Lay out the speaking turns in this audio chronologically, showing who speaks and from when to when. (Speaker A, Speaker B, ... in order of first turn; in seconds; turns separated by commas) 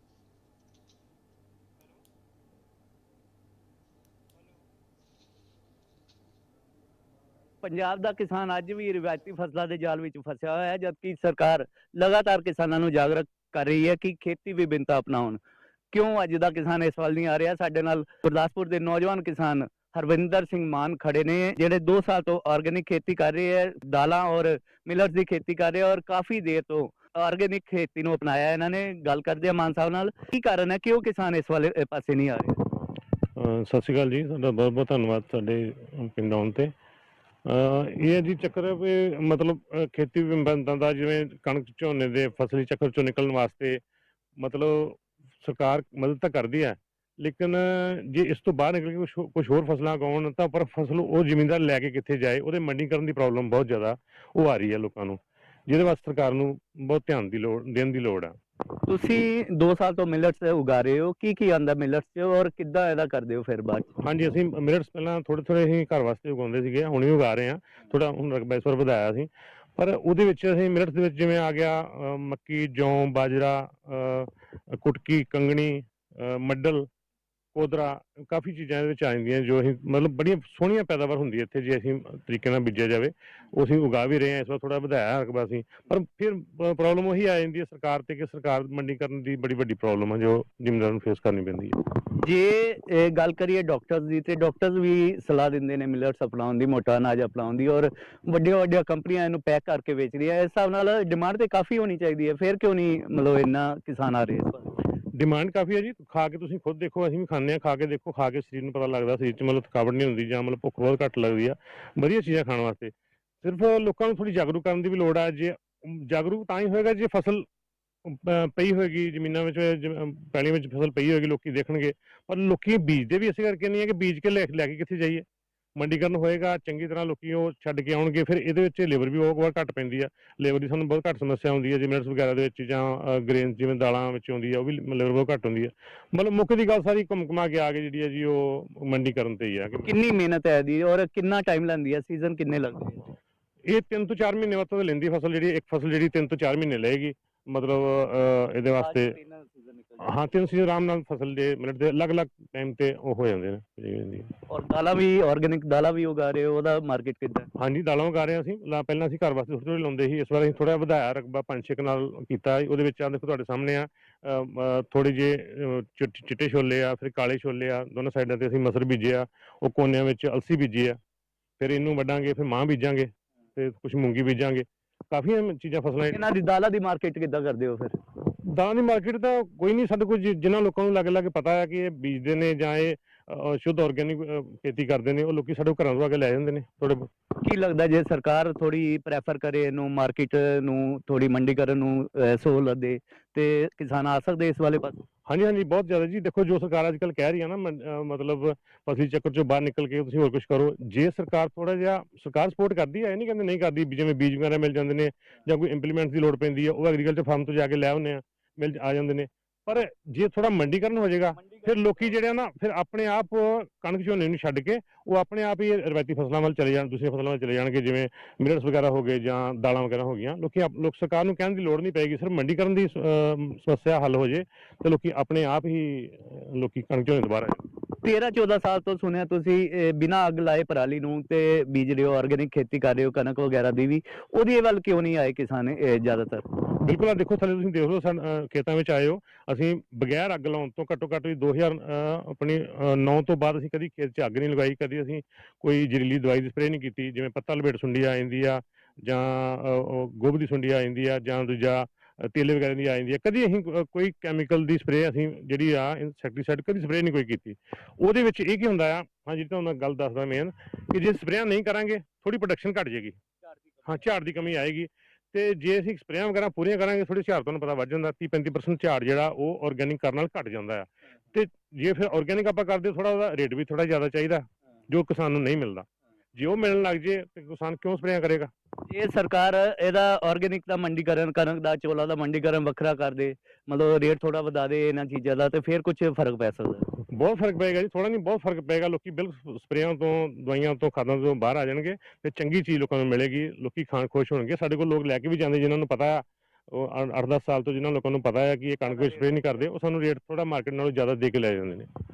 Speaker A: 7.6-15.4, Speaker A: 15.9-32.6, Speaker B: 33.4-36.7, Speaker B: 37.5-43.8, Speaker B: 44.4-58.3, Speaker A: 58.9-63.9, Speaker B: 64.0-76.9, Speaker B: 77.5-91.8, Speaker A: 92.1-104.7, Speaker B: 105.2-112.9, Speaker B: 113.4-117.4, Speaker B: 118.0-125.2, Speaker B: 125.8-139.9, Speaker A: 139.8-143.0, Speaker B: 143.7-149.1, Speaker A: 148.8-150.1, Speaker B: 150.0-154.3, Speaker A: 154.5-157.5, Speaker B: 157.6-171.0, Speaker B: 171.6-176.2, Speaker A: 176.1-177.9, Speaker B: 178.5-187.1, Speaker A: 187.4-195.0, Speaker B: 195.3-227.7, Speaker A: 228.0-236.4, Speaker B: 236.8-263.2, Speaker B: 263.9-278.5, Speaker A: 278.9-286.9, Speaker B: 287.1-301.9, Speaker A: 298.8-299.4